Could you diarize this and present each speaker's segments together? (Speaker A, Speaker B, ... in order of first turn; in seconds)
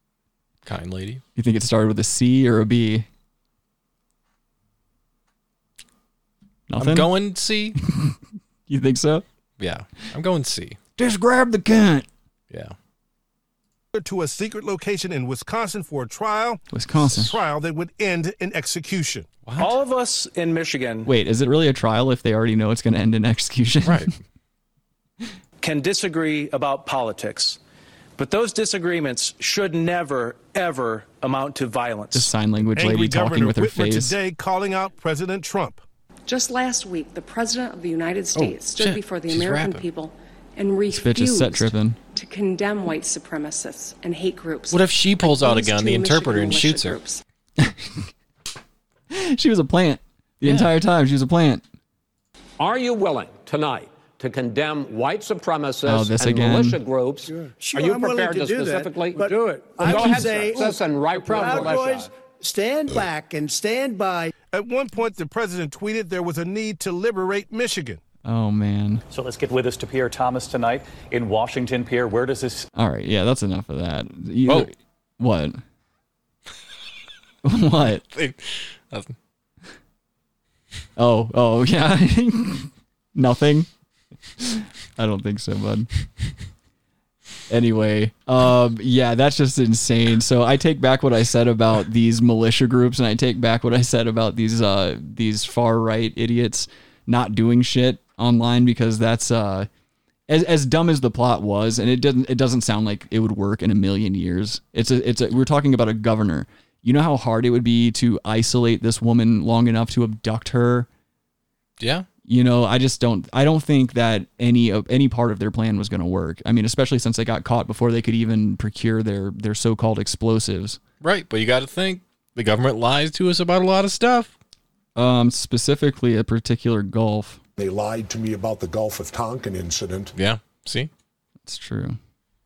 Speaker A: 0.6-1.2, 6.8-7.8, 9.6-10.8, 12.5-12.7, 17.0-17.3, 19.4-19.7, 23.8-24.1, 38.3-39.8, 44.7-47.0, 50.4-50.7, 78.1-79.1, 111.8-112.0, 121.0-124.3, 130.1-130.9
Speaker B: 1.4-3.0, 6.7-7.1, 7.8-9.2, 11.0-12.1, 16.7-17.3, 21.1-24.1, 32.1-34.1, 40.9-42.0, 47.6-48.1, 49.1-51.6, 55.9-56.8, 59.9-60.2, 68.2-69.0, 72.7-75.6, 77.4-78.0, 81.0-83.7, 84.4-85.9, 87.5-99.7, 100.3-110.9, 112.3-120.8, 124.9-127.4, 131.4-132.0
Speaker C: 13.9-19.3, 32.8-35.8, 64.5-68.0
Speaker D: 19.6-21.1, 25.6-27.6, 28.2-32.3
Speaker E: 36.3-47.2
Speaker F: 52.6-62.1
Speaker G: 57.3-64.3
Speaker H: 69.1-72.7
Speaker I: 127.6-130.1